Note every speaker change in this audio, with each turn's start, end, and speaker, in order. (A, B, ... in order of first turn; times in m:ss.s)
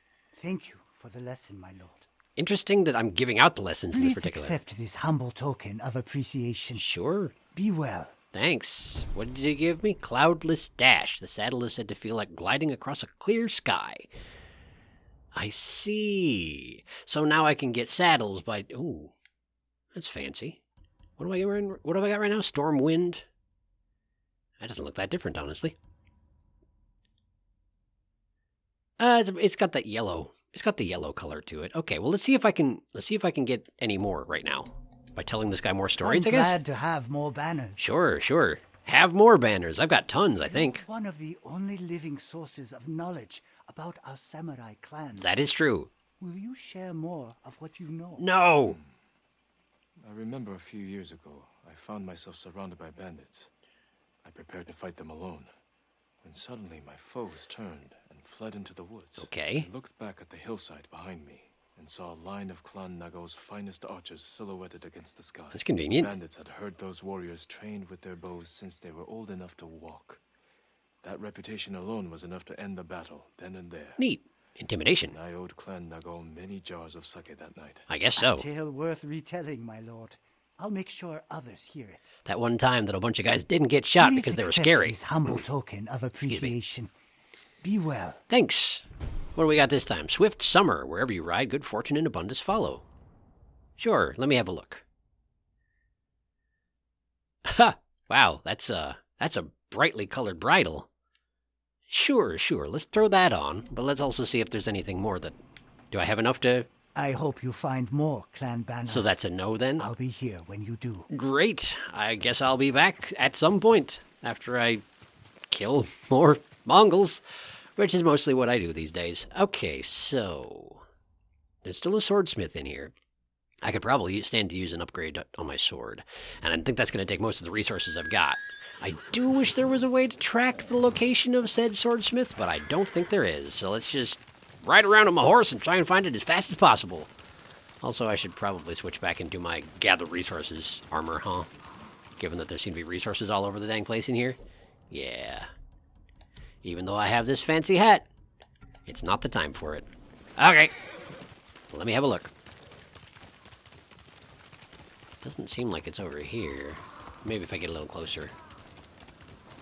0:00.3-0:02.1 A
0:02.4-0:04.6 B
0:03.9-0:06.9 A
0:06.8-0:07.3 B
0:07.5-0:08.2 A
0:08.3-0:14.1 B
0:15.3-0:19.1 B
0:19.9-0:20.6 B
0:21.2-0:23.3 B
0:24.6-0:25.8 B
0:29.0-0:36.6 B
0:36.0-0:37.8 A
0:37.8-0:40.8 B
0:40.4-0:45.4 A
0:45.2-0:45.9 B
0:46.2-0:48.3 A
0:48.2-0:48.8 B
0:50.0-0:53.5 C
0:54.2-0:55.5 C
0:56.2-1:10.2 C
0:59.2-0:59.7 B
1:05.5-1:06.1 B
1:11.0-1:14.0 C
1:14.0-1:15.2 B
1:15.1-1:17.9 C
1:17.9-1:18.4 B
1:18.2-1:22.2 A
1:22.3-1:25.0 B
1:24.0-1:26.9 A
1:26.2-1:26.5 B
1:27.6-1:28.2 A
1:28.3-1:32.8 B
1:33.8-1:34.8 B
1:37.4-1:40.9 B
1:41.9-1:45.4 B
1:45.9-1:46.7 B
1:47.0-1:49.2 A
1:48.9-1:49.9 B
1:49.8-1:51.1 A
1:51.1-1:54.8 B
1:55.5-1:57.2 B
1:57.8-2:00.8 B
2:01.6-2:02.9 B
2:03.6-2:17.1 B
2:17.8-2:21.5 B
2:22.2-2:24.4 B
2:24.9-2:25.5 B
2:26.6-2:28.1 B
2:28.9-2:30.7 B
2:31.7-2:32.3 B
2:35.2-2:38.3 B